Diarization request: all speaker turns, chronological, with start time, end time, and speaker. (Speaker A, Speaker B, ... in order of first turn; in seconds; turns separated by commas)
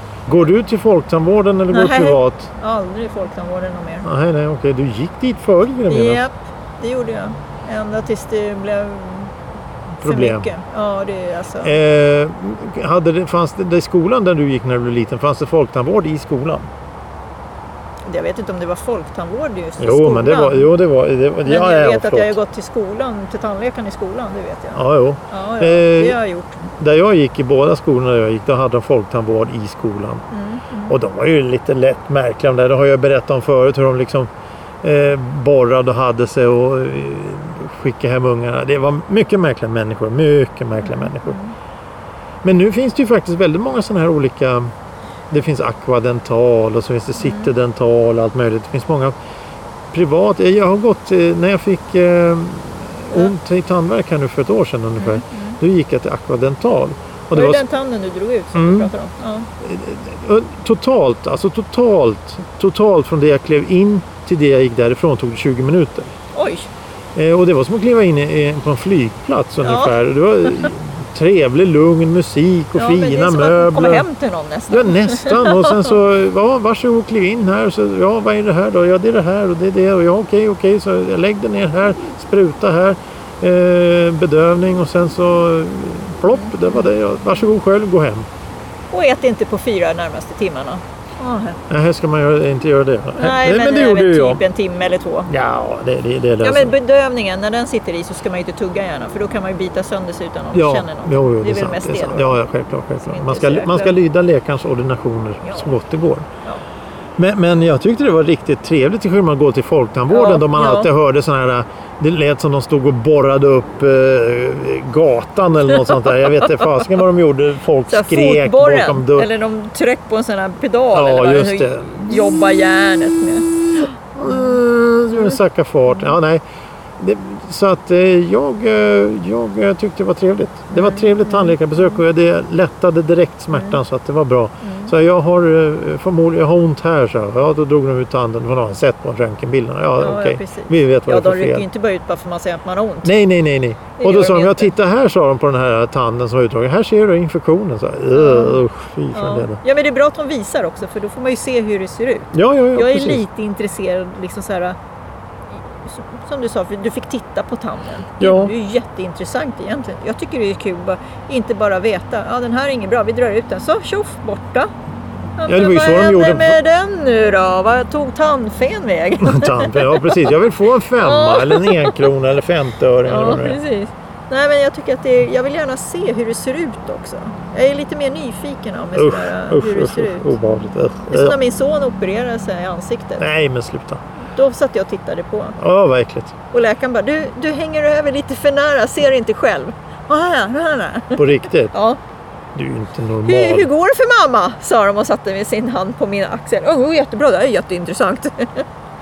Speaker A: 0.3-2.5, Speaker B: 1.7-4.1, Speaker A: 4.0-6.3, Speaker B: 5.9-9.3, Speaker A: 10.0-10.5, Speaker B: 10.0-11.8, Speaker A: 11.6-16.7, Speaker B: 18.1-20.7, Speaker A: 19.8-22.4, Speaker B: 21.4-26.6, Speaker A: 24.7-30.2, Speaker B: 30.3-30.9, Speaker A: 30.9-34.3, Speaker A: 34.8-41.4, Speaker B: 40.8-41.5, Speaker A: 42.4-44.7, Speaker A: 45.3-49.1, Speaker B: 47.2-47.5, Speaker A: 49.9-57.6, Speaker B: 55.0-55.6, Speaker B: 57.3-59.5, Speaker A: 58.5-58.9, Speaker A: 59.6-66.1, Speaker B: 66.3-66.7, Speaker A: 67.2-74.0, Speaker B: 69.6-70.0, Speaker B: 72.8-75.9, Speaker A: 74.7-88.3, Speaker B: 86.3-86.9, Speaker B: 88.9-91.6, Speaker A: 91.7-94.4, Speaker B: 93.2-95.3, Speaker A: 95.3-96.8, Speaker B: 96.4-102.4, Speaker A: 100.5-106.3, Speaker B: 103.0-104.0, Speaker A: 107.2-119.3, Speaker B: 110.1-110.9, Speaker B: 115.7-116.8, Speaker B: 117.9-124.6, Speaker A: 120.9-122.2, Speaker A: 124.2-126.4, Speaker B: 125.1-125.4, Speaker A: 127.0-141.7, Speaker B: 130.7-131.6, Speaker B: 133.5-133.8, Speaker B: 134.6-134.9, Speaker B: 140.0-143.1, Speaker A: 143.0-149.6, Speaker B: 144.0-144.7, Speaker B: 148.1-148.6, Speaker B: 149.1-154.8, Speaker A: 152.3-153.2, Speaker B: 155.5-164.7, Speaker A: 158.2-158.5, Speaker B: 165.4-170.2, Speaker A: 165.5-166.6, Speaker A: 169.2-173.6, Speaker B: 170.9-172.1, Speaker B: 173.1-180.4, Speaker A: 178.9-181.4, Speaker B: 181.1-183.2, Speaker A: 183.2-184.0, Speaker B: 184.3-185.6, Speaker A: 185.6-186.3, Speaker B: 186.5-192.0, Speaker A: 191.2-191.7, Speaker A: 192.5-193.7, Speaker B: 193.2-198.7